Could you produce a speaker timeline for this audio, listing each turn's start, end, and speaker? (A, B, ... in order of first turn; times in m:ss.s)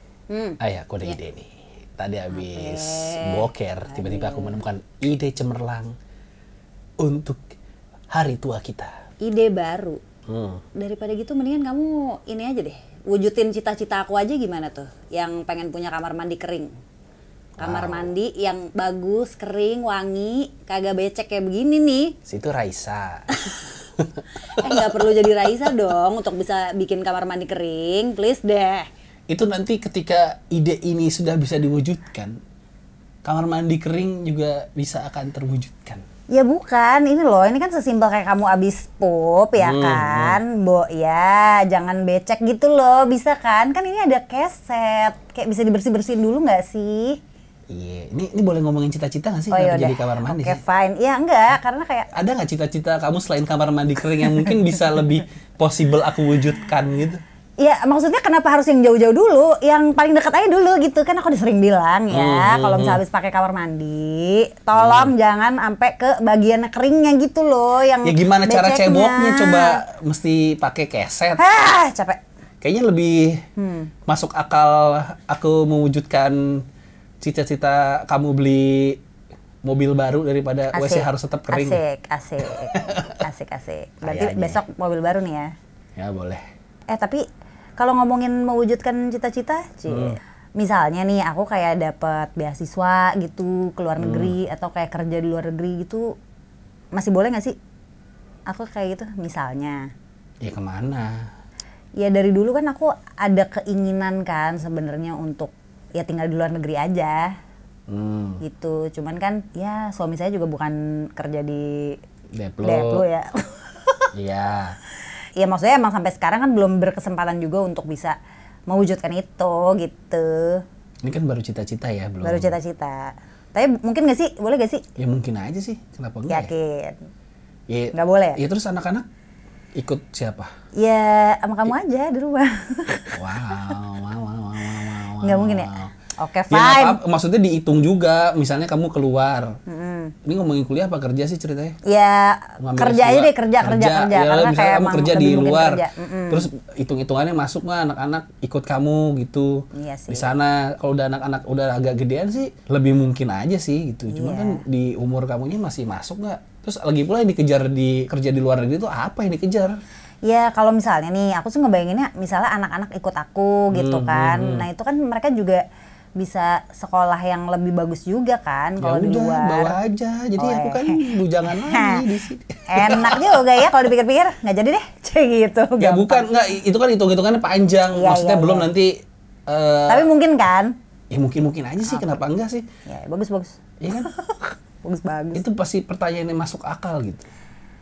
0:00.3-0:01.2 A
0:00.6-0:06.0 B
0:02.3-0:04.6 A
0:07.0-0:07.4 B
0:08.1-0:08.9 B
0:09.2-0:10.0 A
0:10.3-0:10.6 B
0:10.8-0:16.7 A
0:17.6-0:18.1 B
0:17.6-0:22.2 A
0:22.3-0:25.0 B
0:24.5-0:28.9 A
0:29.3-0:32.4 B
0:33.2-0:36.0 B
0:36.3-0:47.2 A
0:39.6-0:40.4 B
0:47.7-0:50.6 B
0:49.5-0:52.1 A
0:52.1-0:57.2 B
0:57.6-1:09.8 A
1:02.1-1:03.0 B
1:04.7-1:05.1 B
1:08.0-1:11.4 B
1:11.4-1:12.2 A
1:12.6-1:13.4 B
1:13.6-1:13.9 A
1:14.1-1:16.6 B
1:17.2-1:19.0 B
1:19.6-1:21.8 B
1:20.7-1:25.5 A
1:22.5-1:23.2 B
1:24.0-1:24.6 B
1:26.0-1:26.4 B
1:26.9-1:27.2 A
1:27.8-1:36.1 A
1:29.9-1:30.2 B
1:34.0-1:34.4 B
1:37.0-1:37.6 A
1:38.5-1:39.8 A
1:40.4-1:41.3 B
1:42.0-1:47.3 A
1:47.9-1:48.4 B
1:48.4-1:52.0 A
1:52.3-1:53.0 B
1:52.6-1:54.1 A
1:54.1-1:54.8 B
1:55.4-1:58.2 A
1:58.7-2:00.6 A
2:01.0-2:02.6 B
2:02.2-2:04.8 A
2:05.0-2:06.5 B
2:06.3-2:07.0 A
2:07.7-2:09.1 B
2:07.9-2:08.4 A
2:09.8-2:10.5 B
2:10.8-2:13.8 A
2:13.2-2:15.9 B
2:15.2-2:17.0 A
2:16.5-2:19.6 B
2:19.7-2:20.1 A
2:20.2-2:21.8 B
2:21.9-2:26.5 A
2:22.6-2:39.8 B
2:29.7-2:30.3 A
2:34.1-2:34.6 A
2:40.3-2:45.6 A
2:43.7-2:44.7 B
2:46.2-2:49.8 A
2:48.8-2:53.5 B
2:50.4-2:52.1 A
2:52.7-2:56.3 A
2:55.8-3:00.1 B
2:57.9-2:58.7 A
2:59.9-3:00.7 A
3:01.1-3:02.7 B
3:02.9-3:04.1 A
3:03.8-3:04.1 B
3:04.8-3:05.4 A
3:05.4-3:07.3 B